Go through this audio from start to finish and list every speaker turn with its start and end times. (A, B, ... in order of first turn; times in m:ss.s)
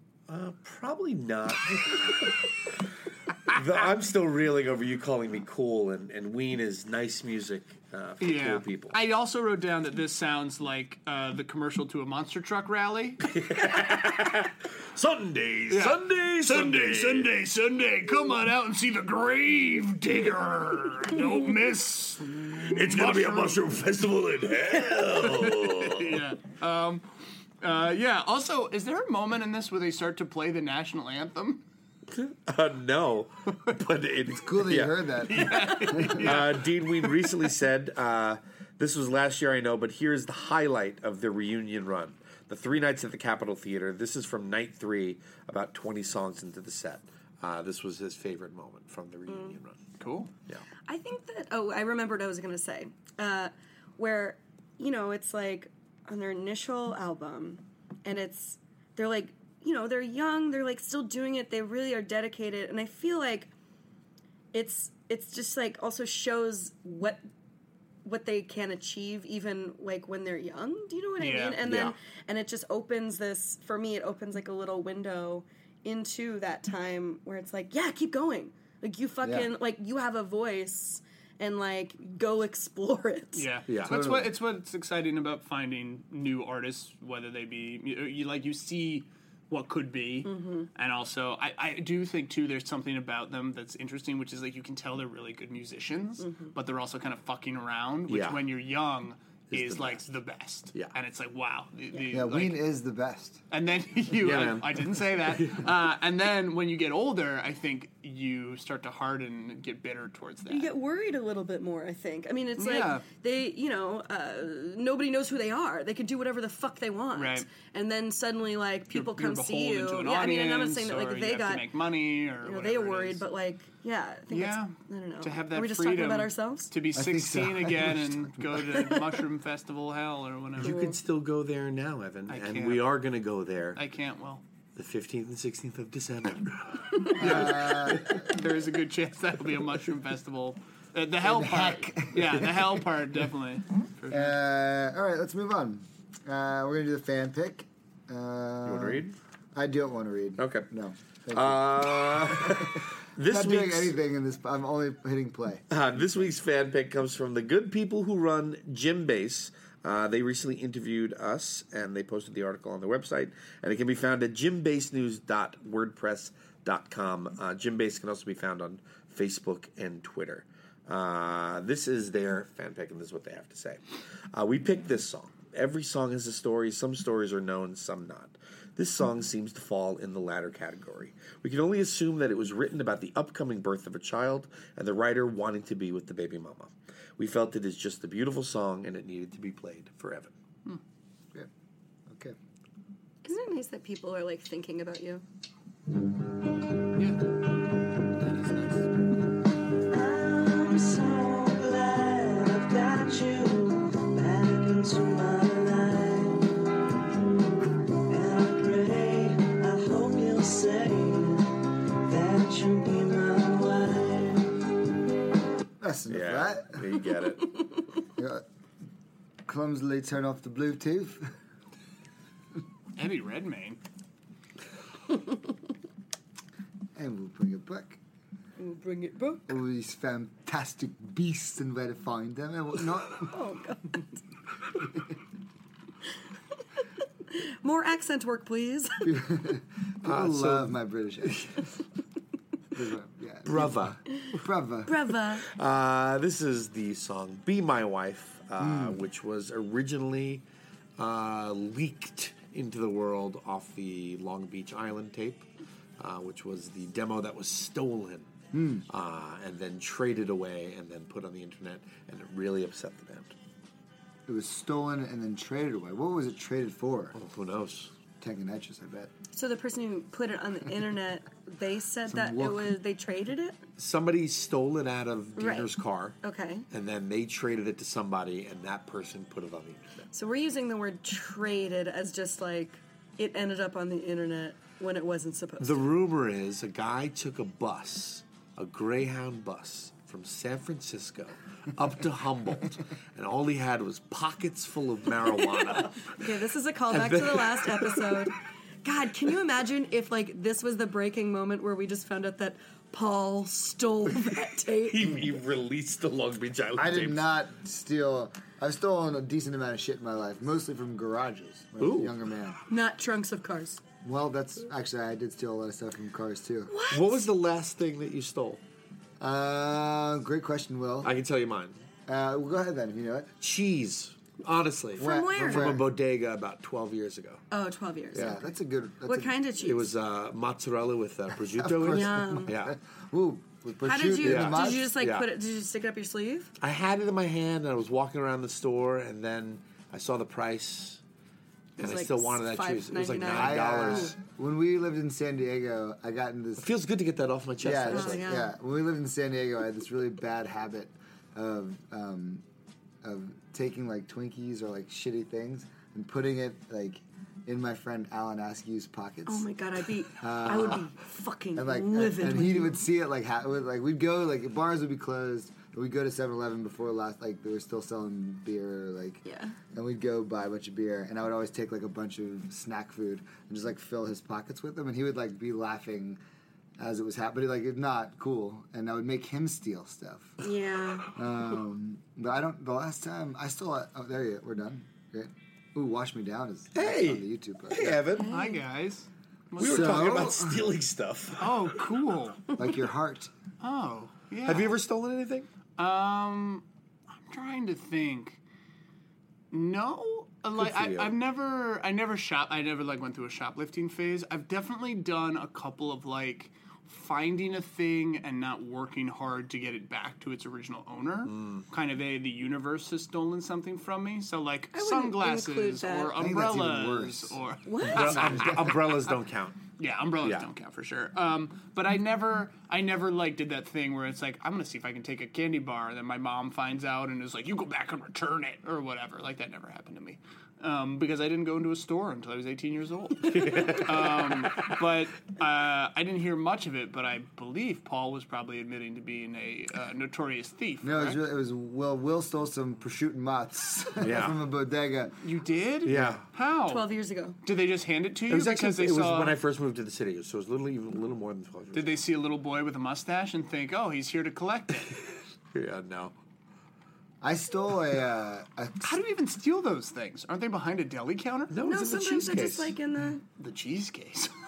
0:00.3-0:02.5 A
0:03.4-0:09.0 A
0:08.2-0:13.3 B
0:13.2-0:17.3 A
0:15.7-0:23.6 B
0:22.6-0:26.2 A
0:25.1-0:27.0 B
0:27.6-0:31.6 B
0:32.1-0:35.1 A
0:34.4-0:36.4 C
0:35.3-0:37.3 B
0:36.0-0:49.8 A
0:49.3-0:49.6 D
0:50.0-0:50.3 B
0:50.8-1:03.5 D
1:04.5-1:07.2 D
1:08.0-1:23.5 D
1:11.2-1:11.6 B
1:11.6-1:11.9 A
1:19.2-1:19.5 C
1:23.3-1:42.6 B
1:23.7-1:24.0 A
1:23.8-1:24.3 C
1:30.2-1:30.7 D
1:36.2-1:36.5 D
1:38.1-1:38.4 A
1:39.5-1:40.0 A
1:42.1-1:43.4 C
1:43.5-1:50.7 B
1:44.1-1:45.7 A
1:50.5-2:01.7 D
1:52.6-1:53.0 B
1:57.1-1:57.5 B
1:58.9-2:03.2 B
2:02.4-2:06.7 D
2:04.3-2:10.7 B
2:06.9-2:08.3 C
2:08.6-2:09.0 D
2:10.6-2:13.8 A
2:10.6-2:11.0 D
2:12.3-2:12.9 B
2:13.8-2:14.4 B
2:14.8-2:17.9 A
2:17.2-2:18.3 C
2:17.2-2:24.4 B
2:21.2-2:22.5 C
2:24.1-2:35.6 C
2:28.6-2:29.2 A
2:30.4-2:30.7 A
2:31.3-2:34.0 A
2:35.7-2:53.8 A
2:54.3-3:10.3 A
3:12.1-3:12.4 C
3:13.2-3:15.2 D
3:17.0-3:17.2 B
3:18.1-3:18.9 B
3:19.9-3:26.5 E
3:28.1-3:34.5 E
3:35.8-3:36.9 C
3:36.1-3:37.6 A
3:38.2-3:38.4 C
3:39.4-3:41.3 C
3:43.0-3:43.8 B
3:46.9-3:48.0 C
3:48.6-3:49.5 D
3:49.5-3:53.3 C
3:53.2-3:54.1 D
3:57.3-3:59.1 D
3:59.0-4:01.8 C
4:00.0-4:00.7 A
4:02.7-4:05.0 C
4:03.4-4:04.0 A
4:04.8-4:05.4 D
4:05.4-4:10.4 A
4:08.6-4:09.0 C
4:11.0-4:15.4 A
4:16.0-4:18.3 A
4:18.5-4:18.8 C
4:18.9-4:23.3 A
4:24.3-4:27.2 C
4:27.1-4:27.9 A
4:28.2-4:29.1 C
4:29.3-4:33.6 D
4:32.1-4:32.8 C
4:33.8-4:36.2 A
4:35.4-4:35.7 D
4:36.2-4:36.6 D
4:36.7-4:40.0 A
4:40.1-4:45.8 D
4:45.6-4:56.2 A
4:56.0-5:05.2 D
4:56.9-4:58.3 A
5:04.9-5:07.3 A
5:06.8-5:12.6 C
5:11.8-5:12.2 A
5:12.7-5:13.8 D
5:14.0-5:16.7 C
5:16.7-5:17.2 D
5:16.9-5:18.6 A
5:19.2-5:21.1 C
5:21.0-5:21.8 A
5:22.1-5:23.3 C
5:23.4-5:27.4 A
5:25.0-5:25.8 D
5:25.0-5:25.9 C
5:27.5-5:28.4 D
5:28.1-5:29.3 C
5:29.0-5:29.9 D
5:29.6-5:32.7 A
5:31.5-5:34.9 C
5:31.8-5:32.5 D
5:33.8-5:36.5 D
5:34.2-5:35.3 A
5:36.6-5:41.0 A
5:41.8-5:44.1 D
5:41.8-5:44.2 A
5:43.3-5:46.7 C
5:46.6-5:48.3 A
5:47.6-5:52.4 C
5:47.9-5:48.5 D
5:53.0-5:59.5 C
5:59.3-6:02.8 D
6:00.2-6:00.9 C
6:01.5-6:16.2 C
6:09.2-6:09.6 D
6:16.8-6:20.4 C
6:20.4-6:21.1 D
6:21.1-6:28.1 C
6:26.7-6:28.3 A
6:28.2-6:28.6 D
6:28.3-6:30.3 B
6:29.6-6:30.7 C
6:29.6-6:31.7 A
6:31.4-6:32.5 B
6:32.5-6:33.3 C
6:33.6-6:34.7 B
6:34.4-6:35.5 A
6:35.8-6:36.6 B
6:37.3-6:38.4 B
6:39.5-6:58.8 B
6:40.6-6:41.1 A
6:51.3-6:51.6 A
6:54.7-6:56.2 D
6:56.1-6:57.4 C
6:57.6-6:58.3 D
6:57.8-6:59.6 A
6:58.0-6:58.7 C
6:59.8-7:21.2 B
7:00.2-7:00.5 A
7:13.2-7:14.1 A
7:20.8-7:25.2 C
7:24.0-7:24.4 A
7:25.2-7:26.8 B
7:25.8-7:26.2 A
7:26.6-7:27.4 D
7:27.4-7:29.4 B
7:28.3-7:32.0 A
7:31.7-7:35.0 B
7:35.5-7:36.1 A
7:37.2-7:39.0 C
7:38.8-7:41.5 B
7:41.5-7:42.7 A
7:41.6-7:43.2 D
7:43.4-7:44.3 B